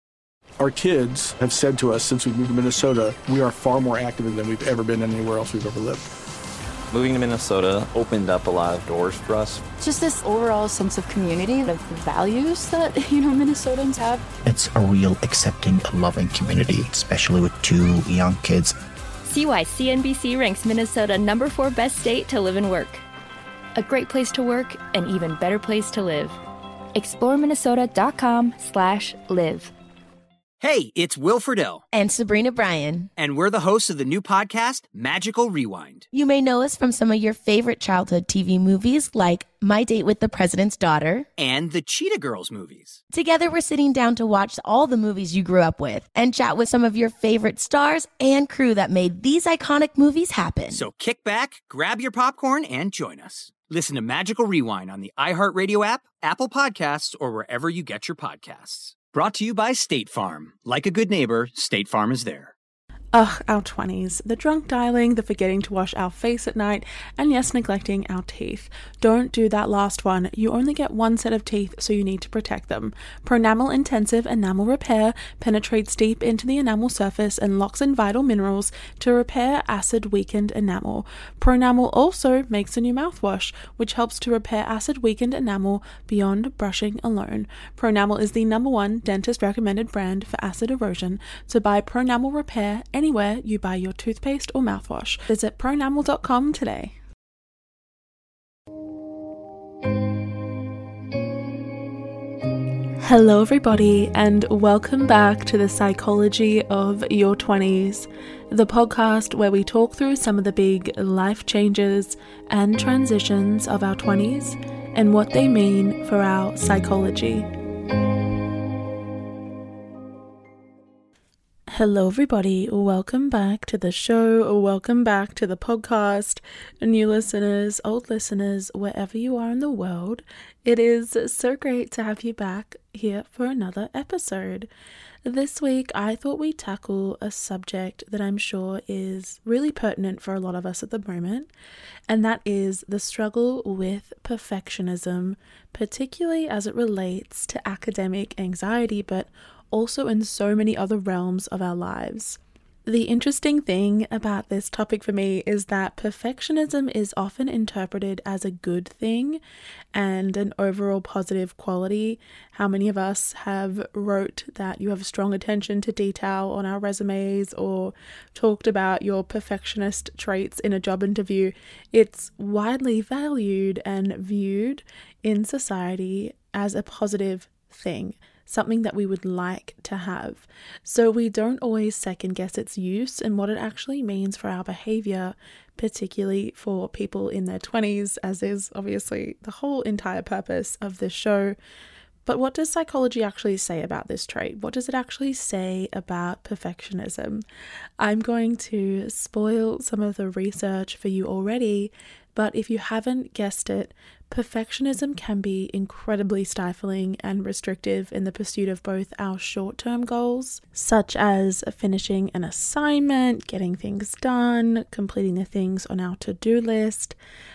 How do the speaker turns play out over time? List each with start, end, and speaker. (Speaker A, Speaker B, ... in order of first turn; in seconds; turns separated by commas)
Speaker A: 0.6-6.1, Speaker B: 6.9-9.6, Speaker C: 9.8-14.3, Speaker D: 14.4-18.8, Speaker E: 19.2-23.0, Speaker E: 23.8-26.4, Speaker E: 26.9-29.7, Speaker F: 30.6-31.8, Speaker G: 31.9-33.1, Speaker F: 33.2-36.1, Speaker G: 36.1-41.3, Speaker F: 41.4-43.0, Speaker G: 43.1-50.9, Speaker F: 50.7-62.5, Speaker H: 63.1-97.0, Speaker H: 103.0-117.5, Speaker H: 121.7-134.7, Speaker H: 135.2-141.5, Speaker H: 142.1-159.4, Speaker H: 159.9-191.6, Speaker H: 192.2-197.4, Speaker H: 198.0-217.2